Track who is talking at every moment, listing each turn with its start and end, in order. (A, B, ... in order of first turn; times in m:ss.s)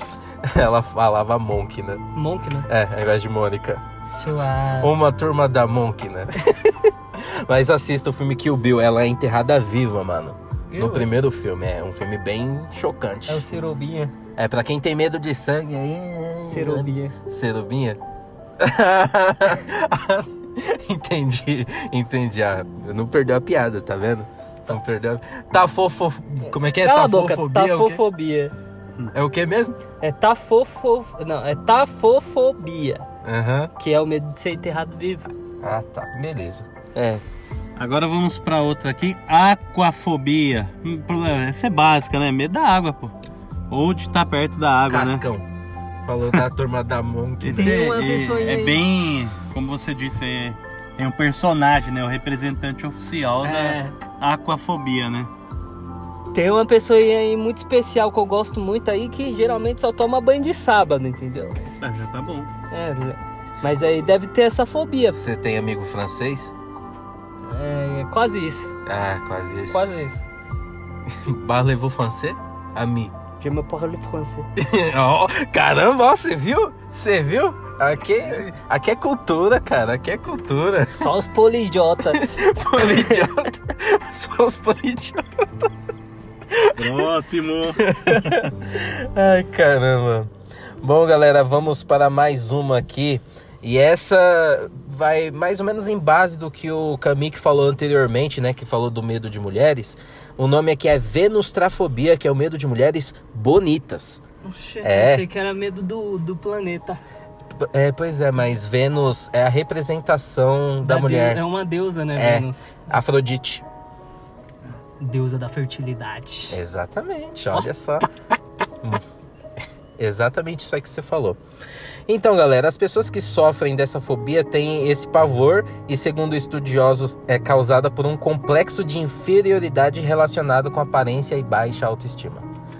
0:00.4-0:02.0 A
0:02.1-0:02.7 B
0:02.7-0:03.8 A
0:04.1-0:04.9 B
0:04.8-0:13.5 A
0:10.7-0:11.1 B
0:13.3-0:14.1 B
0:14.4-0:18.0 A
0:16.5-0:17.1 B
0:18.6-0:28.0 A
0:26.5-0:28.5 B
0:29.1-0:29.8 A
0:30.0-0:33.1 B
0:33.2-0:33.7 A
0:33.8-0:35.3 B
0:35.6-0:37.2 A
0:37.8-0:43.1 C
0:43.7-0:45.2 C
0:44.9-0:45.5 A
0:46.0-0:47.8 A
0:47.4-0:55.3 C
0:47.6-0:48.8 B
0:53.4-0:54.0 B
0:56.3-1:01.6 B
1:01.8-1:02.5 C
1:02.7-1:05.2 B
1:05.1-1:06.5 A
1:07.5-1:08.7 B
1:08.9-1:09.9 A
1:09.7-1:10.3 B
1:11.1-1:13.1 A
1:13.4-1:14.5 B
1:14.6-1:21.1 A
1:20.9-1:22.3 B
1:22.1-1:25.7 A
1:26.5-1:27.0 A
1:26.7-1:28.4 C
1:27.8-1:44.2 A
1:44.4-1:47.0 B
1:44.8-1:45.3 A
1:47.5-1:51.4 A
1:50.8-1:52.9 B
1:52.1-1:53.6 A
1:55.0-1:56.6 B
1:56.5-1:58.1 A
2:00.0-2:01.4 A
2:02.1-2:12.5 A